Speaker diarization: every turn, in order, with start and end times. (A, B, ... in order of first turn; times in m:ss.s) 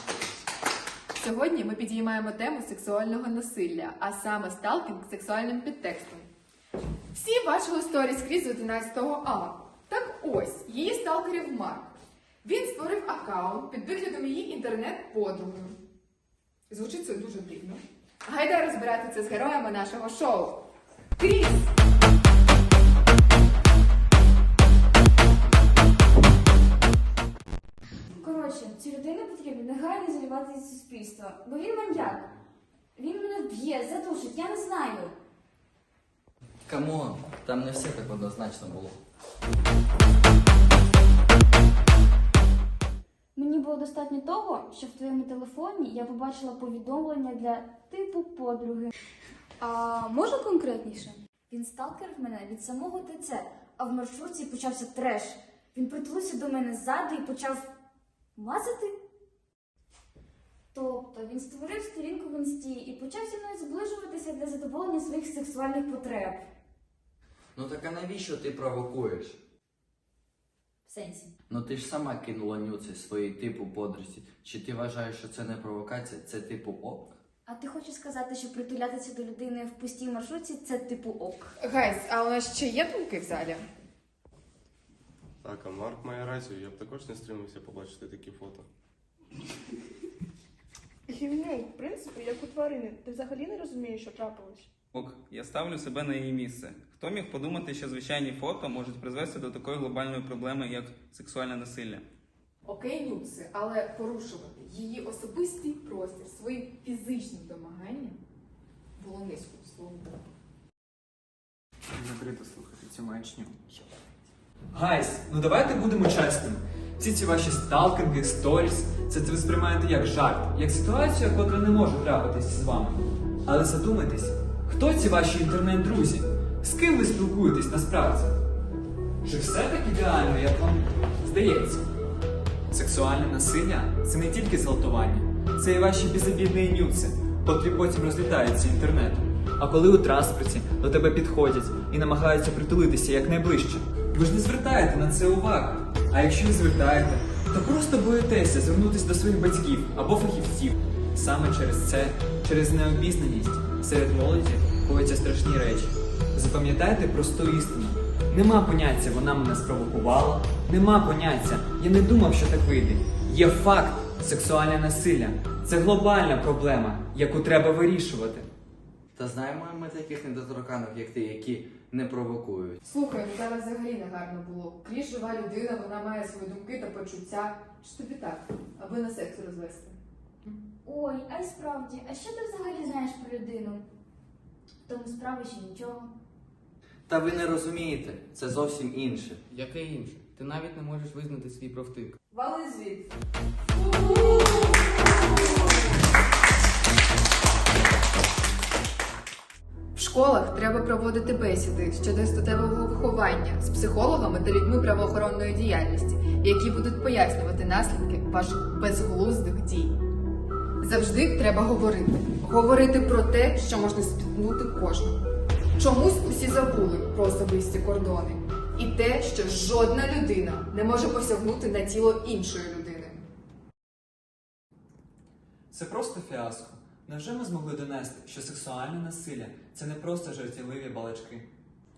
0:01.2-0:06.3 A
0:07.1-0:15.8 A
0:16.7-0:20.6 A
0:21.2-0:21.7 A
0:28.2-0:32.3 B
0:33.0-0:35.1 B
0:36.7-0:39.0 C
0:43.4-0:48.9 B
0:49.6-0:57.7 B
0:58.4-0:58.9 B
1:00.7-1:06.4 B
1:07.6-1:09.4 C
1:10.9-1:11.3 B
1:11.5-1:17.2 C
1:17.5-1:21.5 B
1:21.6-1:23.7 A
1:25.4-1:28.7 D
1:31.1-1:34.7 E
1:35.0-1:42.0 F
1:42.6-1:48.2 A
1:49.0-1:50.2 A
1:51.9-1:53.6 G
1:54.7-2:08.4 G
2:09.2-2:11.8 G
2:12.7-2:48.5 G
2:49.2-2:52.8 C
2:52.8-3:00.0 A
3:00.8-3:03.8 B
3:04.8-3:06.1 B
3:07.1-3:09.4 C
3:09.5-3:12.1 H
3:12.3-3:13.1 B
3:13.8-3:14.6 B
3:20.0-3:30.0 A
3:30.8-3:35.2 A
3:35.8-3:43.2 A
3:45.7-3:51.5 G